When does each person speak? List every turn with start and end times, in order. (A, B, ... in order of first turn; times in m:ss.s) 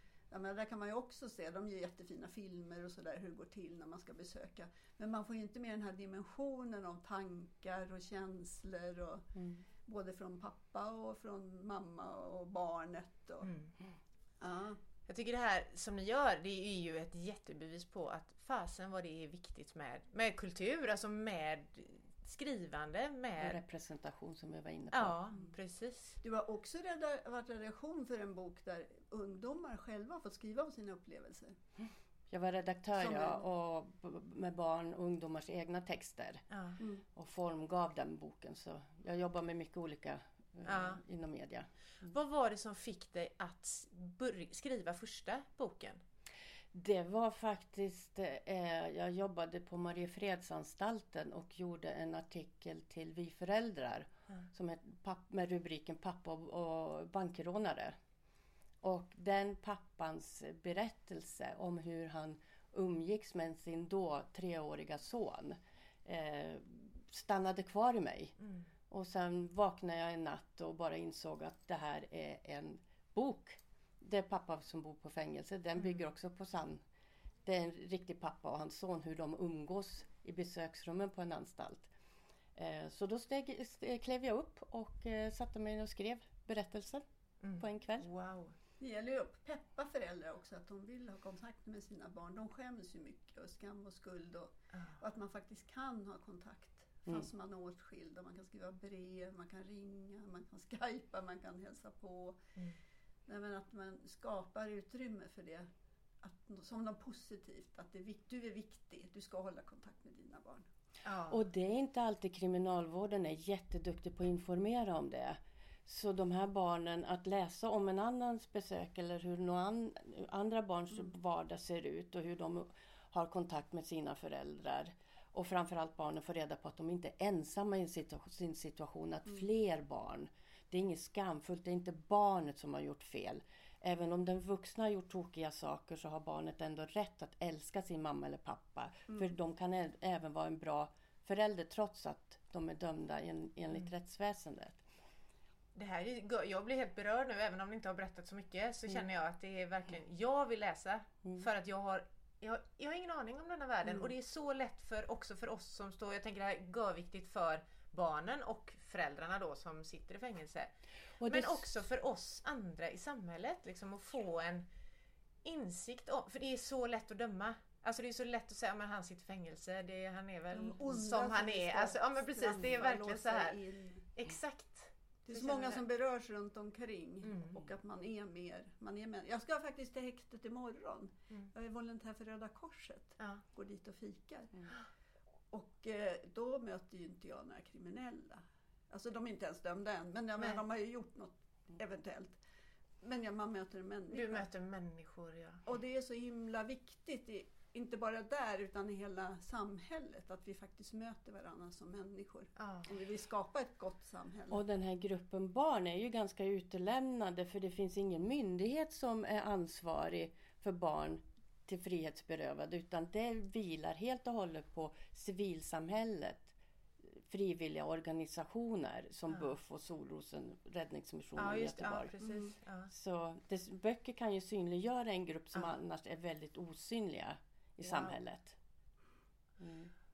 0:00.3-0:09.3 A
0:09.4-0:09.6 B
0:09.8-0:13.5 A
0:13.4-0:13.7 C
0:14.4-0:14.8 A
0:15.1-0:23.6 C
0:23.4-0:25.2 B
0:24.9-0:26.2 C
0:26.2-0:31.5 A
0:32.3-0:36.4 B
0:33.0-0:33.4 A
0:36.5-0:36.8 C
0:37.1-0:41.7 B
0:40.6-0:41.0 C
0:42.0-0:46.0 C
0:46.7-0:58.0 B
0:58.8-1:08.3 B
1:08.9-1:16.8 B
1:15.8-1:16.0 C
1:17.4-1:21.9 B
1:22.6-1:27.0 B
1:27.4-1:28.5 C
1:27.6-1:28.1 B
1:28.8-1:42.4 A
1:43.3-1:45.7 A
1:46.2-1:50.7 A
1:51.0-1:51.4 C
1:51.3-2:24.8 B
2:25.8-2:40.7 C
2:41.2-2:41.7 B
2:41.2-2:44.6 C
2:45.4-2:53.6 C
2:50.5-2:54.1 A
2:54.2-2:55.8 C
2:55.2-3:04.6 A
2:57.2-2:57.7 C
3:05.5-3:12.4 A
3:13.0-3:14.4 A
3:14.1-3:15.6 C
3:15.6-3:24.6 A
3:22.6-3:22.9 C
3:24.5-3:36.5 B
3:37.2-3:42.1 B
3:41.4-3:42.9 C
3:42.9-3:48.6 B
3:47.8-3:48.2 C
3:49.6-3:49.9 B